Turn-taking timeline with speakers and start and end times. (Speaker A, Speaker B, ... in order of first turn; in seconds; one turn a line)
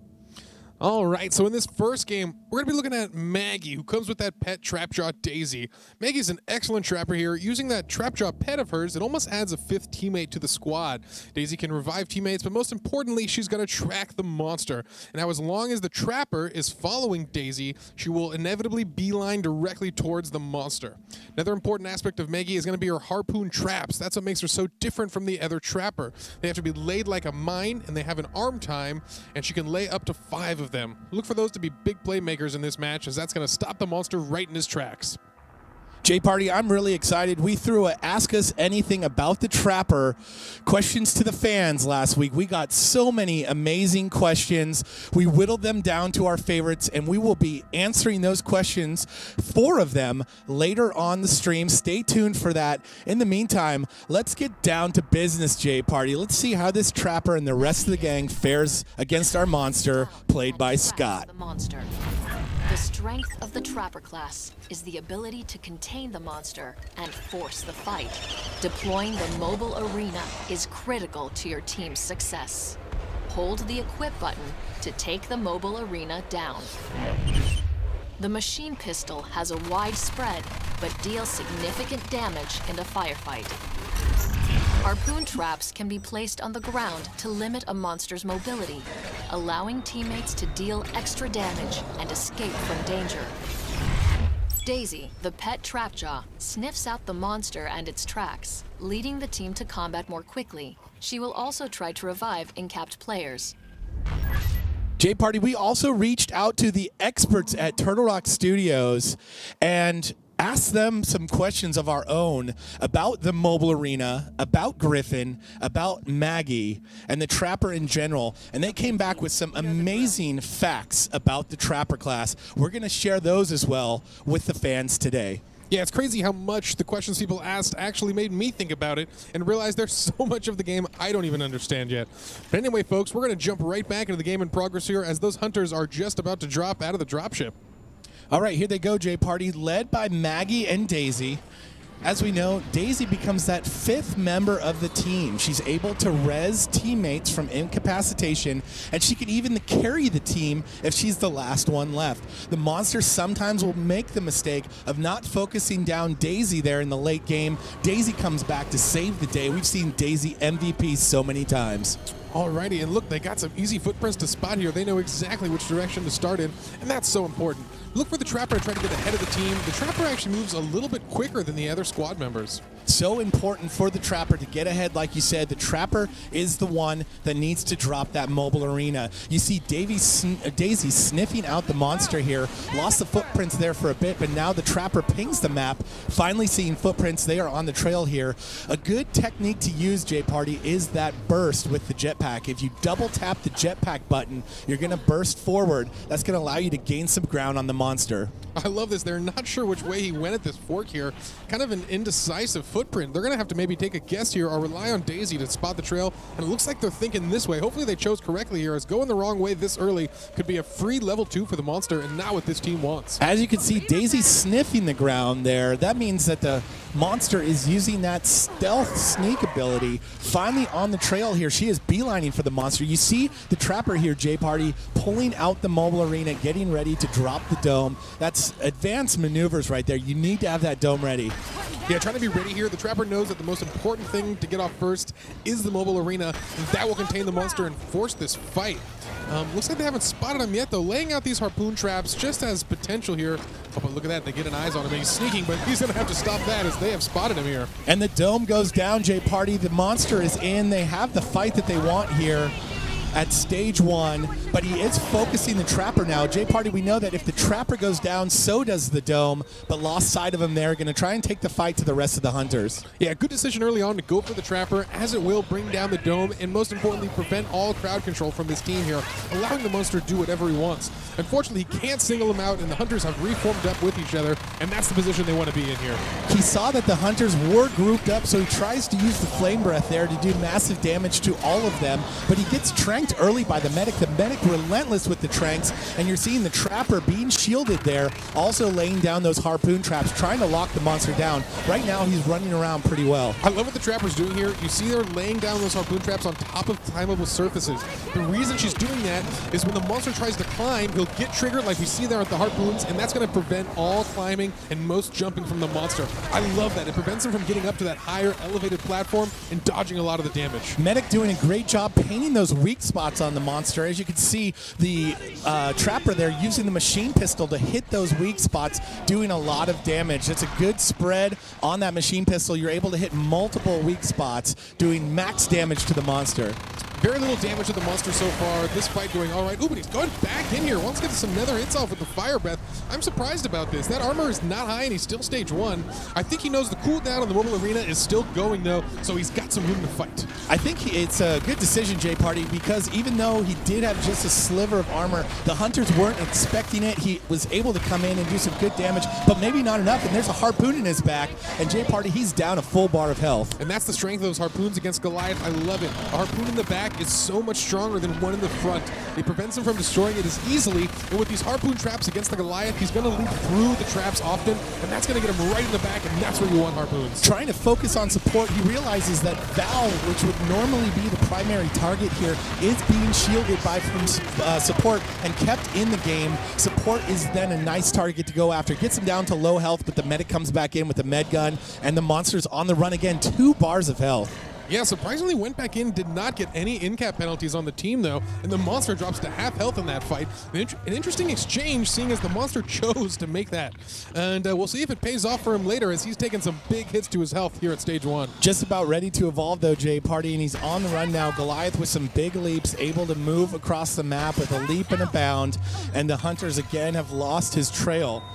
Speaker A: 0.8-35.2
Speaker B: 36.0-61.3
Speaker C: 59.5-62.0
Speaker C: 62.6-72.8
Speaker C: 73.3-76.7
Speaker C: 78.2-83.6
Speaker C: 84.8-93.3
Speaker C: 94.6-103.5
Speaker B: 105.0-125.4
Speaker A: 125.7-137.5
Speaker B: 138.3-141.4
Speaker B: 142.0-162.0
Speaker A: 162.3-172.6
Speaker B: 172.8-198.3
Speaker A: 198.5-213.2
Speaker B: 213.2-231.4
Speaker A: 231.8-247.7
Speaker B: 247.8-252.5
Speaker B: 253.1-262.8
Speaker A: 263.0-276.0
Speaker B: 276.3-293.4
Speaker A: 293.4-310.8
Speaker B: 310.8-326.6
Speaker A: 326.9-340.3
Speaker B: 340.5-353.6
Speaker A: 353.6-367.2
Speaker B: 367.2-384.3
Speaker A: 384.7-398.4
Speaker B: 398.4-408.2